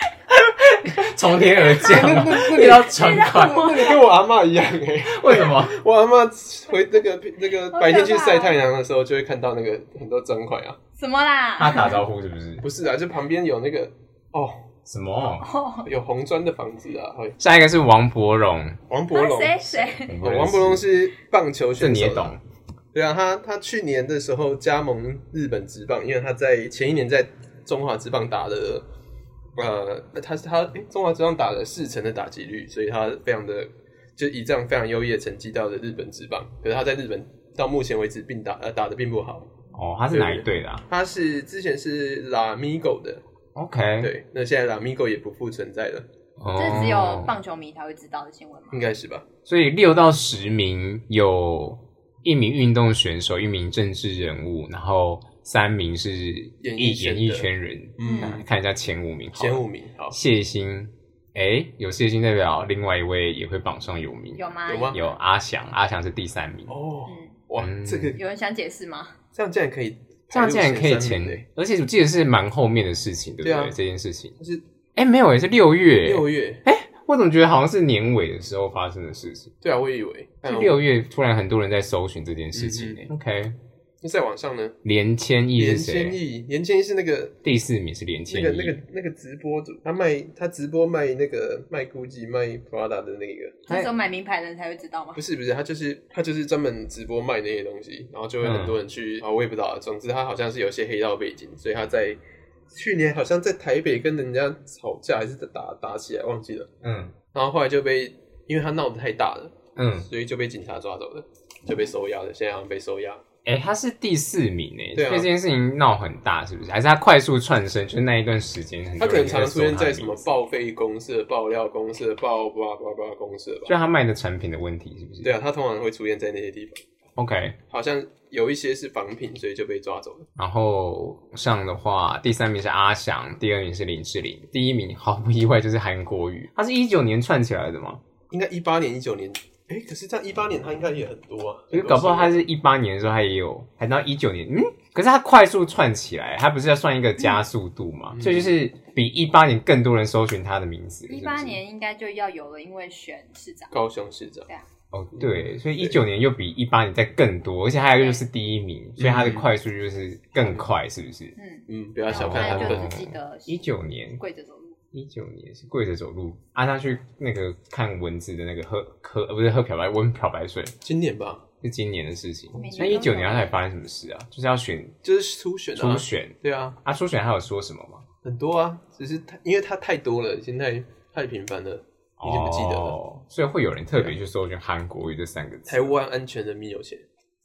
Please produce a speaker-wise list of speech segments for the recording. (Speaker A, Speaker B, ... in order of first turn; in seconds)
Speaker A: 0.3-3.7, 5.0-5.8, 11.6-12.7, 14.9-15.5, 17.4-18.8, 20.0-20.9, 21.8-22.4, 39.7-40.9, 43.5-44.1, 46.4-47.4, 49.5-66.7, 67.6-68.2, 70.3-74.3, 75.0-79.5, 80.4-83.6, 84.8-86.2, 87.4-88.8, 98.4-98.8, 106.8-107.2, 109.8-110.1, 113.5-120.3, 123.7-125.3, 127.2-127.6, 130.4-138.0, 141.7-151.6, 154.9-161.4, 162.1-164.2, 164.9-170.8, 171.6-175.0, 175.8-178.1, 182.2-186.0
Speaker B: 1.8-10.8, 12.6-14.7, 15.8-17.4, 18.9-22.4, 22.9-28.9, 29.6-39.5, 40.1-43.2, 44.0-46.1, 48.7-49.3, 56.6-58.5, 59.4-60.2, 64.7-65.0, 66.7-68.2, 69.3-71.5, 73.4-73.8, 76.0-76.6, 79.6-80.8, 82.5-83.0, 84.0-84.8, 85.6-87.4, 88.3-93.7, 95.2-106.7, 107.3-113.2, 115.0-115.3, 119.0-123.8, 125.2-126.8, 127.7-130.3, 138.3-142.4, 148.1-148.6, 153.7-154.5, 155.2-156.0, 159.0-159.5, 160.4-160.7, 161.7-162.9, 170.8-171.4, 172.6-172.9, 175.0-176.8, 178.2-183.0, 185.7-187.1
Speaker C: 2.0-4.0, 7.7-8.6, 11.0-12.0, 15.4-15.9, 19.1-20.1, 46.6-48.9, 58.0-58.4, 64.4-65.1, 67.1-67.4, 68.2-69.2, 93.7-95.2, 151.1-153.8, 157.9-158.2, 161.4-163.7, 164.2-164.8, 172.5-173.6